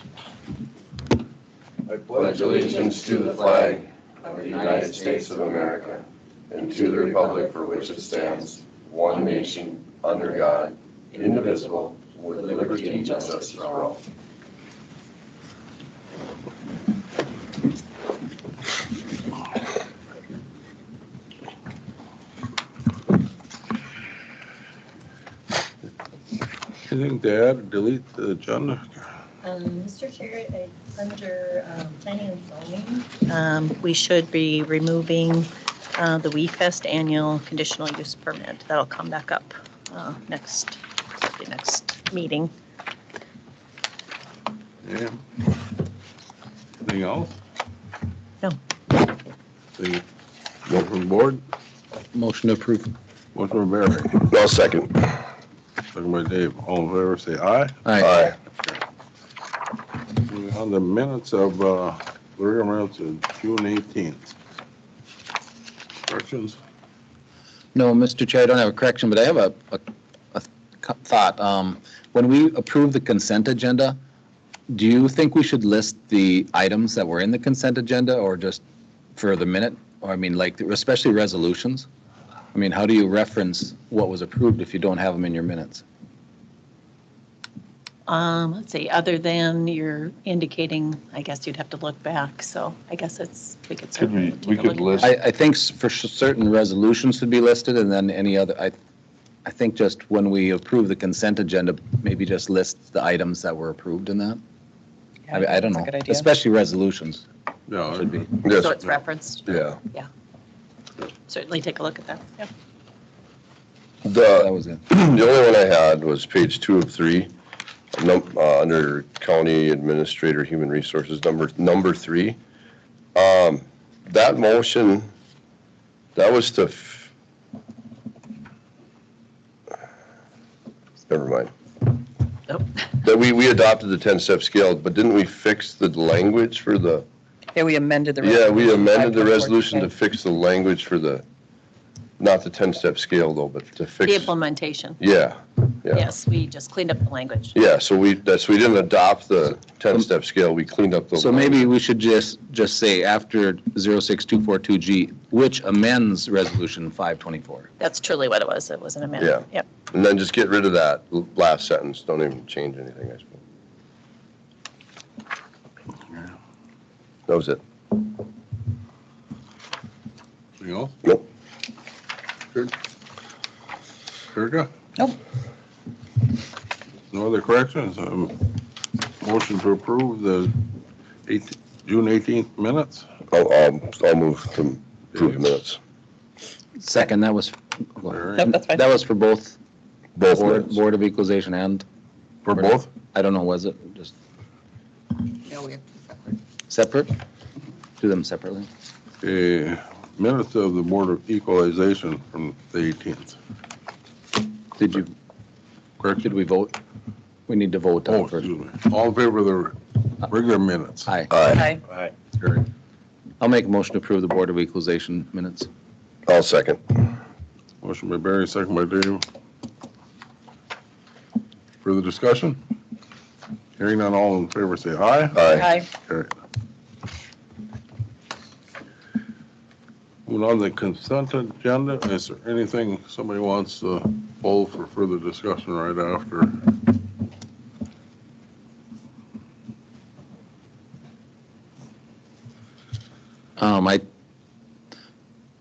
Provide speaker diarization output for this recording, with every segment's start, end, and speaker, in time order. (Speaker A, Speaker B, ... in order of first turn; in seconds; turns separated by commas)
Speaker A: 1.9-14.0, Speaker B: 26.9-29.1, Speaker C: 29.4-42.5, Speaker B: 44.8-45.5, Speaker B: 46.8-47.4, Speaker B: 49.8-50.0, Speaker B: 50.7-51.4, Speaker D: 52.1-52.9, Speaker B: 53.3-54.2, Speaker A: 54.2-55.2, Speaker B: 55.9-57.9, Speaker D: 57.9-58.1, Speaker A: 58.0-58.4, Speaker B: 60.1-64.3, Speaker B: 66.1-66.6, Speaker D: 67.7-74.0, Speaker D: 74.7-78.6, Speaker D: 79.2-81.9, Speaker D: 82.5-85.8, Speaker C: 88.1-95.1, Speaker D: 95.0-98.7, Speaker D: 99.4-104.4, Speaker E: 105.3-106.3, Speaker D: 105.3-107.2, Speaker B: 107.7-109.0, Speaker A: 108.4-108.7, Speaker C: 108.5-110.1, Speaker A: 109.5-109.8, Speaker C: 111.3-112.5, Speaker A: 114.0-117.3, Speaker D: 114.3-114.8, Speaker A: 117.9-122.4, Speaker A: 123.1-125.1, Speaker A: 126.1-127.1, Speaker A: 131.1-131.5, Speaker A: 133.0-137.1, Speaker E: 137.5-139.9, Speaker A: 138.2-141.2, Speaker A: 142.2-144.3, Speaker C: 144.0-145.0, Speaker A: 145.0-146.0, Speaker C: 145.9-147.5, Speaker A: 147.5-151.7, Speaker D: 151.2-157.7, Speaker C: 157.8-159.7, Speaker A: 159.2-163.4, Speaker A: 167.3-167.6, Speaker B: 170.6-170.9, Speaker B: 174.3-174.7, Speaker B: 177.1-178.6, Speaker B: 179.2-180.6, Speaker B: 181.3-183.1, Speaker A: 183.3-185.8, Speaker B: 185.1-185.4, Speaker D: 186.8-189.6, Speaker B: 188.1-188.5, Speaker E: 188.5-188.8, Speaker A: 190.2-190.8, Speaker D: 190.3-191.8, Speaker B: 192.4-192.9, Speaker D: 192.5-194.1, Speaker E: 195.4-195.8, Speaker D: 196.7-197.1, Speaker D: 198.0-198.7, Speaker B: 199.2-203.4, Speaker D: 204.8-205.1, Speaker B: 206.0-206.3, Speaker D: 206.2-206.8, Speaker D: 207.5-208.5, Speaker B: 208.1-211.2, Speaker D: 211.1-211.3, Speaker A: 211.3-211.7, Speaker E: 211.5-211.8, Speaker D: 213.4-215.7, Speaker A: 216.2-217.1, Speaker B: 217.8-219.2, Speaker B: 221.8-222.6, Speaker B: 223.8-226.3, Speaker A: 225.3-225.7, Speaker C: 225.6-225.8, Speaker B: 230.2-236.7, Speaker D: 243.6-244.0